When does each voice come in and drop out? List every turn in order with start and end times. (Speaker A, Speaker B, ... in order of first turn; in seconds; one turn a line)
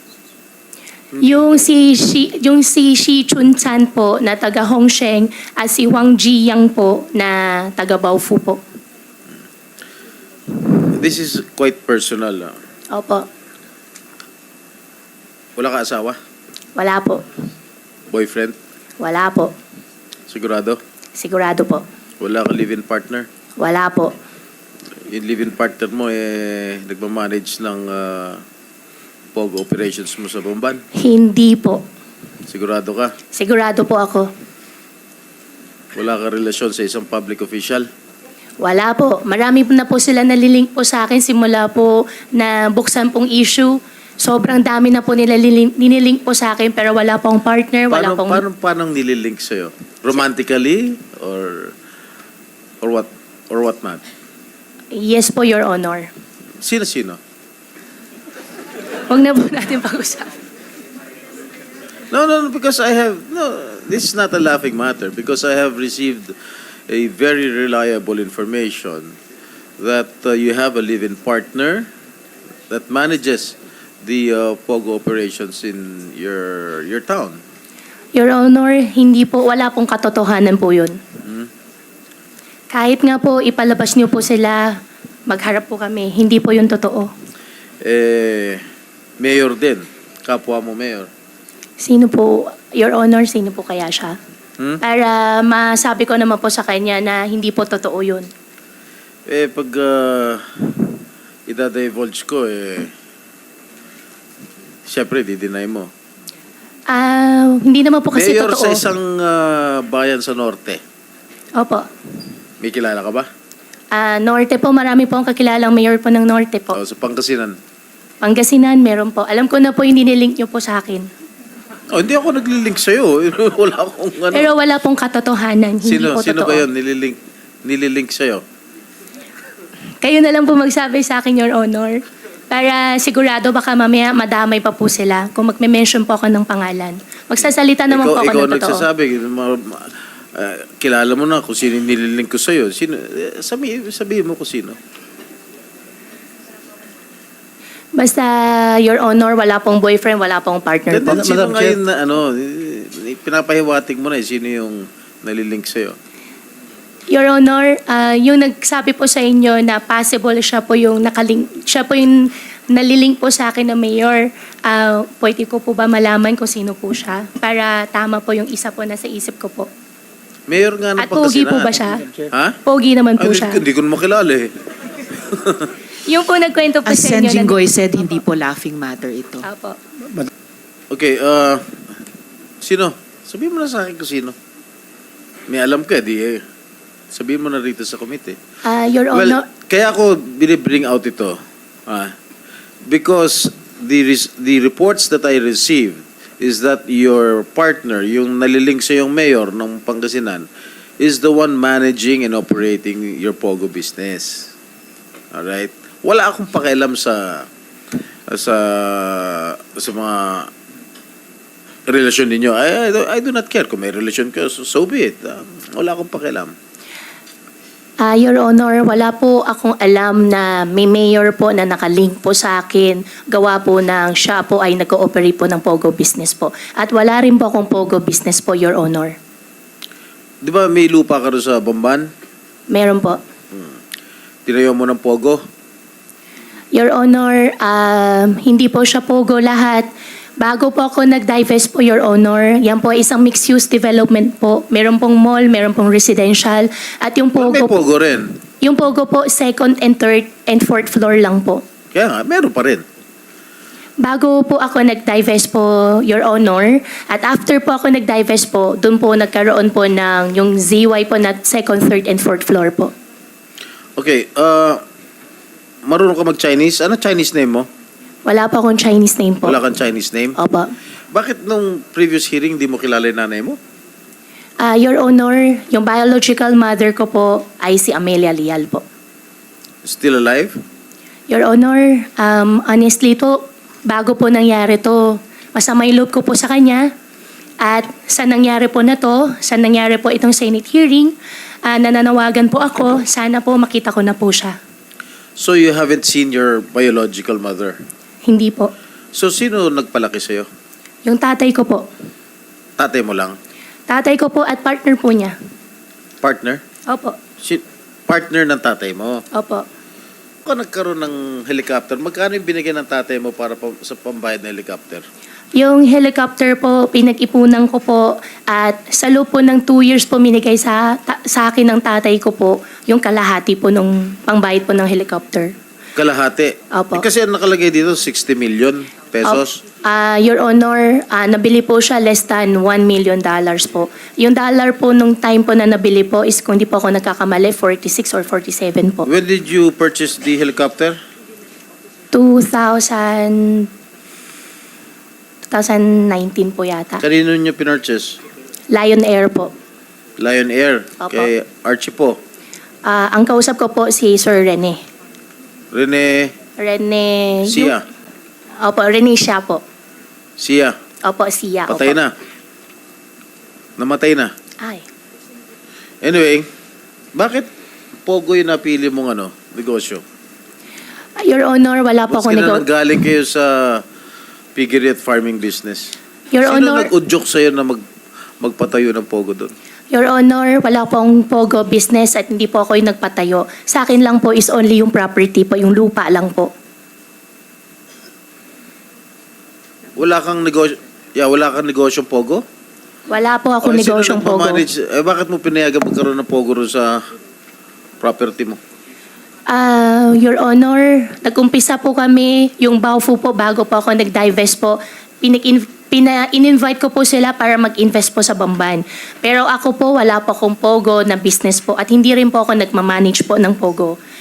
Speaker A: 1.1-1.6
Speaker B: 1.2-8.6
Speaker A: 10.8-12.5
Speaker B: 12.9-13.3
Speaker A: 15.6-16.2
Speaker B: 16.8-17.2
Speaker A: 18.1-18.6
Speaker B: 19.0-19.5
Speaker A: 20.3-20.8
Speaker B: 21.2-21.8
Speaker A: 22.2-23.3
Speaker B: 23.6-24.1
Speaker A: 25.1-28.4
Speaker A: 29.3-30.8
Speaker B: 30.9-31.8
Speaker A: 32.5-33.1
Speaker B: 33.3-34.3
Speaker A: 35.9-37.9
Speaker B: 38.6-48.4
Speaker A: 47.9-51.7
Speaker A: 52.8-54.0
Speaker B: 54.9-56.1
Speaker A: 56.6-57.2
Speaker B: 59.1-60.3
Speaker A: 62.1-66.3
Speaker A: 66.9-69.2
Speaker A: 69.8-71.9
Speaker A: 72.7-77.4
Speaker B: 78.1-81.0
Speaker A: 81.2-81.5
Speaker B: 82.7-84.7
Speaker B: 85.3-87.1
Speaker A: 87.8-88.6
Speaker A: 89.2-91.1
Speaker B: 91.8-94.2
Speaker B: 94.8-98.3
Speaker A: 99.3-100.8
Speaker A: 101.5-102.9
Speaker A: 104.9-105.9
Speaker B: 106.9-108.8
Speaker A: 108.1-110.8
Speaker B: 111.6-111.9
Speaker A: 112.6-113.3
Speaker B: 113.9-116.8
Speaker A: 116.7-117.5
Speaker B: 118.2-121.1
Speaker A: 121.9-124.5
Speaker B: 124.3-126.7
Speaker A: 125.8-128.4
Speaker B: 130.0-138.9
Speaker A: 137.9-144.8
Speaker B: 147.9-151.8
Speaker A: 150.9-156.0
Speaker B: 157.1-169.7
Speaker A: 170.5-172.6
Speaker B: 171.0-172.1
Speaker B: 172.6-173.6
Speaker A: 173.2-175.7
Speaker B: 176.0-178.2
Speaker C: 176.8-179.4
Speaker B: 179.4-180.0
Speaker A: 180.9-181.8
Speaker A: 182.6-184.3
Speaker A: 185.5-186.4
Speaker A: 187.1-188.4
Speaker B: 188.6-189.4
Speaker A: 189.1-192.1
Speaker A: 192.9-200.5
Speaker A: 201.0-204.5
Speaker A: 205.3-207.5
Speaker A: 208.3-210.5
Speaker A: 211.9-216.5
Speaker B: 218.0-229.1
Speaker A: 230.4-232.1
Speaker B: 232.7-233.2
Speaker A: 234.4-235.4
Speaker B: 236.7-239.9
Speaker B: 240.4-247.8
Speaker A: 247.4-248.3
Speaker B: 248.6-251.6
Speaker A: 251.9-252.8
Speaker B: 254.0-262.9
Speaker A: 264.0-264.8
Speaker A: 265.9-267.7
Speaker B: 268.2-269.6
Speaker A: 269.4-270.4
Speaker B: 270.4-270.7
Speaker A: 271.1-273.6
Speaker B: 274.6-278.8
Speaker A: 279.8-280.6
Speaker B: 281.3-286.9
Speaker B: 287.6-294.6
Speaker A: 295.4-297.8
Speaker B: 298.2-298.7
Speaker A: 299.1-300.5
Speaker B: 301.0-301.9
Speaker A: 302.8-303.4
Speaker B: 303.9-305.4
Speaker A: 306.2-306.6
Speaker B: 306.9-307.2
Speaker A: 307.4-309.2
Speaker B: 309.3-309.6
Speaker A: 310.4-315.0
Speaker B: 315.6-325.5
Speaker A: 325.9-329.6
Speaker B: 326.7-327.0
Speaker B: 329.2-339.1
Speaker A: 339.1-341.0
Speaker B: 342.1-343.7
Speaker B: 345.5-347.0
Speaker A: 347.0-348.2
Speaker B: 348.7-349.5
Speaker A: 350.2-352.2
Speaker B: 351.0-351.3
Speaker B: 352.9-354.8
Speaker A: 355.7-356.3
Speaker B: 356.6-357.8
Speaker A: 357.5-357.8
Speaker B: 358.6-359.6
Speaker A: 360.4-360.8
Speaker B: 361.0-362.0
Speaker A: 361.7-362.1
Speaker A: 363.8-364.3
Speaker A: 366.0-366.5
Speaker A: 367.1-367.5
Speaker A: 368.1-370.0
Speaker B: 371.2-372.6
Speaker A: 372.1-373.8
Speaker A: 374.5-377.8
Speaker B: 376.3-376.9
Speaker A: 378.4-379.5
Speaker B: 379.9-386.5
Speaker A: 389.9-392.4
Speaker B: 393.1-394.6
Speaker A: 393.6-397.0
Speaker A: 398.0-398.6
Speaker B: 399.5-413.9